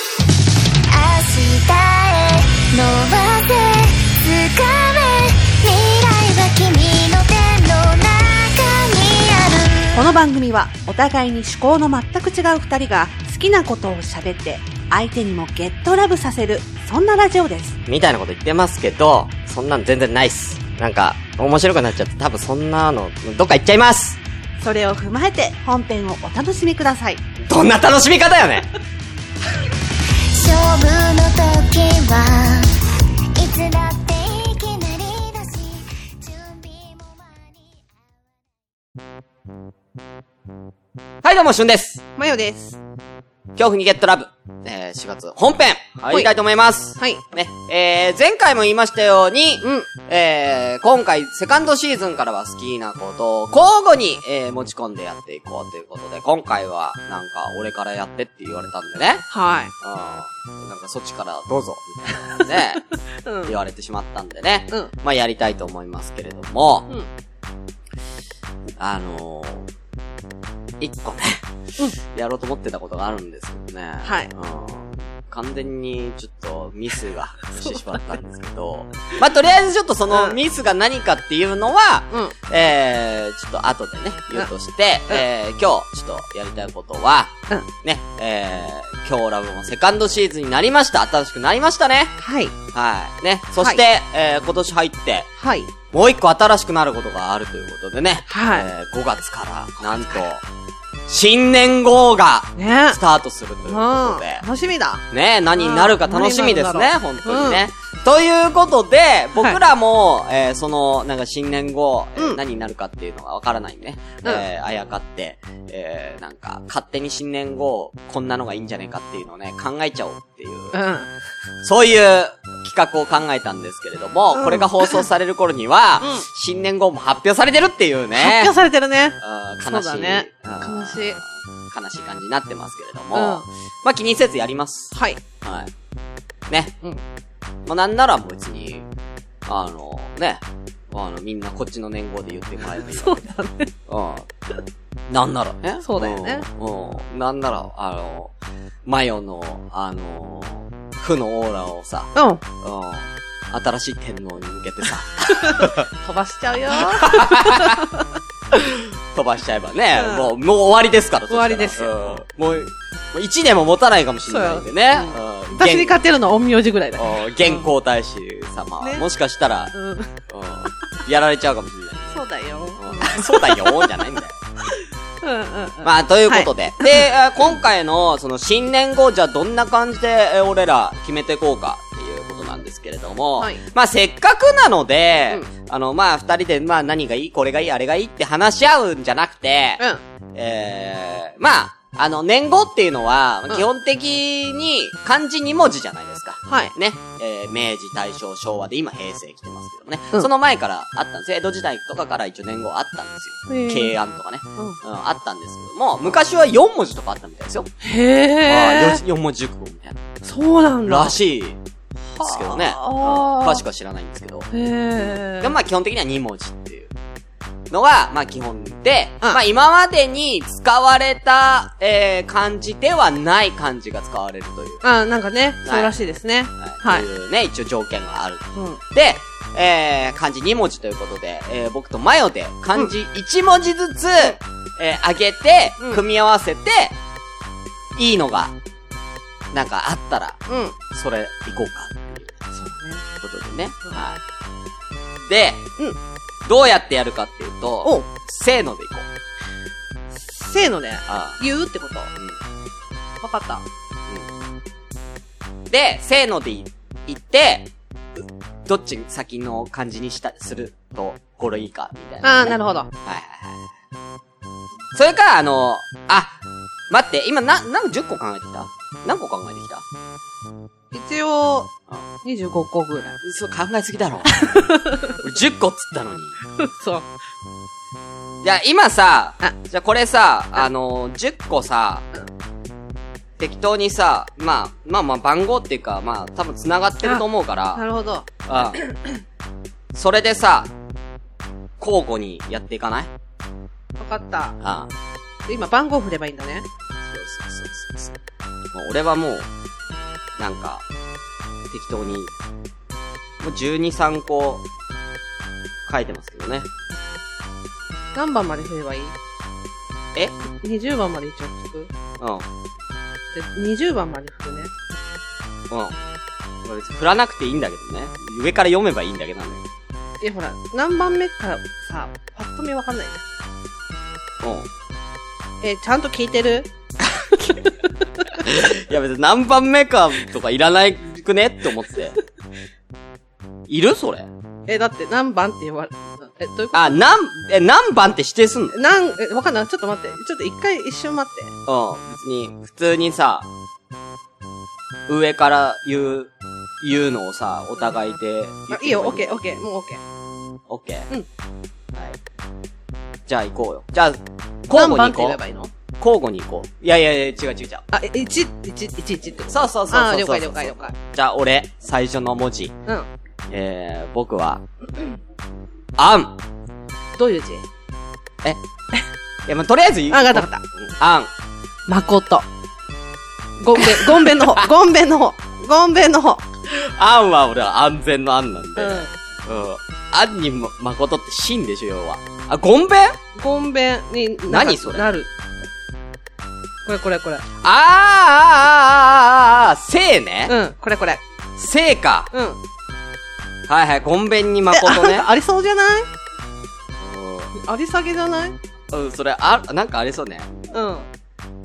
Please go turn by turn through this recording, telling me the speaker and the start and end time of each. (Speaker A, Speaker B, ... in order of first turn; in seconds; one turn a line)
Speaker A: 0.9-10.0
Speaker B: 9.9-17.8
Speaker C: 17.9-24.2
Speaker B: 24.6-27.2
Speaker C: 27.5-28.7
Speaker A: 30.2-32.8
Speaker A: 33.3-37.8
Speaker C: 41.2-42.0
Speaker B: 42.2-42.8
Speaker C: 43.6-59.2
Speaker B: 49.6-49.9
Speaker B: 59.3-59.7
Speaker C: 59.8-62.9
Speaker B: 63.2-63.6
Speaker C: 63.5-66.9
Speaker C: 68.8-69.7
Speaker C: 70.8-92.2
Speaker B: 74.0-74.3
Speaker B: 80.1-80.4
Speaker B: 92.2-92.5
Speaker C: 92.7-95.3
Speaker B: 95.4-95.7
Speaker C: 95.9-100.4
Speaker B: 98.3-98.7
Speaker B: 99.9-100.2
Speaker C: 101.1-104.5
Speaker B: 102.6-103.0
Speaker B: 103.7-105.0
Speaker C: 105.1-120.8
Speaker B: 105.6-107.6
Speaker B: 112.2-112.4
Speaker B: 120.7-121.1
Speaker C: 121.6-128.5
Speaker B: 124.3-125.1
Speaker B: 128.2-131.2
Speaker C: 129.2-135.7
Speaker B: 133.1-133.5
Speaker B: 134.9-135.2
Speaker C: 136.5-136.8
Speaker C: 137.7-138.9
Speaker C: 139.5-143.2
Speaker B: 142.8-143.7
Speaker C: 143.9-144.3
Speaker C: 145.1-148.3
Speaker B: 145.8-146.5
Speaker C: 148.8-155.9
Speaker B: 152.2-152.4
Speaker B: 155.3-158.1
Speaker C: 156.8-157.9
Speaker C: 158.5-166.0
Speaker B: 159.9-160.3
Speaker B: 161.3-162.2
Speaker B: 164.3-167.7
Speaker C: 167.0-169.7
Speaker B: 169.7-170.1
Speaker C: 170.3-172.2
Speaker B: 172.1-174.1
Speaker C: 172.8-174.4
Speaker B: 174.7-177.1
Speaker C: 175.8-207.7
Speaker B: 183.4-183.6
Speaker B: 196.5-196.7
Speaker B: 203.5-203.9
Speaker B: 207.8-209.0
Speaker C: 208.4-210.0
Speaker B: 210.2-211.2
Speaker C: 210.9-211.6
Speaker B: 212.2-213.6
Speaker C: 212.2-216.9
Speaker B: 214.5-215.6
Speaker C: 217.7-224.8
Speaker B: 224.8-227.1
Speaker C: 225.7-225.9
Speaker C: 226.6-237.0
Speaker C: 238.0-238.5
Speaker C: 239.5-242.3
Speaker B: 240.5-240.8
Speaker B: 242.5-243.0
Speaker C: 243.2-244.2
Speaker C: 245.3-245.7
Speaker C: 246.4-249.1
Speaker B: 250.2-252.1
Speaker C: 251.1-251.4
Speaker B: 253.2-253.7
Speaker C: 255.7-257.7
Speaker C: 258.7-263.6
Speaker B: 262.2-262.9
Speaker C: 264.9-266.4
Speaker C: 266.9-269.9
Speaker B: 270.9-271.7
Speaker B: 272.2-273.2
Speaker C: 273.2-276.4
Speaker B: 274.3-275.2
Speaker B: 276.6-277.1
Speaker C: 278.4-282.1
Speaker C: 283.4-287.8
Speaker B: 287.0-289.2
Speaker C: 288.5-288.8
Speaker C: 289.9-290.7
Speaker C: 291.8-293.1
Speaker B: 294.0-294.6
Speaker C: 294.6-294.9
Speaker B: 295.5-296.7
Speaker C: 297.1-298.1
Speaker C: 298.7-299.5
Speaker C: 300.4-300.8
Speaker C: 301.7-302.3
Speaker C: 303.4-304.6
Speaker C: 305.9-306.7
Speaker B: 308.1-309.2
Speaker B: 310.5-311.9
Speaker C: 312.2-312.5
Speaker B: 313.3-314.7
Speaker C: 315.7-315.9
Speaker C: 316.6-319.6
Speaker B: 320.2-323.2
Speaker C: 324.4-324.7
Speaker B: 325.6-328.3
Speaker C: 328.3-332.2
Speaker C: 333.7-334.3
Speaker B: 334.7-337.0
Speaker C: 336.7-338.8
Speaker B: 338.7-341.5
Speaker C: 341.7-343.5
Speaker C: 345.1-349.6
Speaker B: 348.7-350.0
Speaker C: 350.7-351.1
Speaker C: 353.3-355.4
Speaker B: 354.7-355.7
Speaker C: 356.0-357.9
Speaker B: 357.9-360.9
Speaker C: 359.5-362.7
Speaker C: 363.5-364.6
Speaker C: 366.0-366.4
Speaker B: 367.2-367.7
Speaker C: 369.5-371.3
Speaker B: 370.1-370.6
Speaker B: 371.9-372.5
Speaker B: 373.6-376.4
Speaker C: 373.8-374.7
Speaker C: 376.7-383.2
Speaker B: 378.8-379.1
Speaker B: 383.4-385.3
Speaker C: 384.5-385.1
Speaker B: 386.9-387.4
Speaker C: 387.6-390.6
Speaker B: 390.5-391.2
Speaker C: 391.6-392.3
Speaker B: 392.3-392.6
Speaker C: 393.7-395.3
Speaker B: 394.7-396.1
Speaker C: 397.0-397.5
Speaker B: 397.5-398.6
Speaker C: 398.9-400.5
Speaker B: 400.7-401.1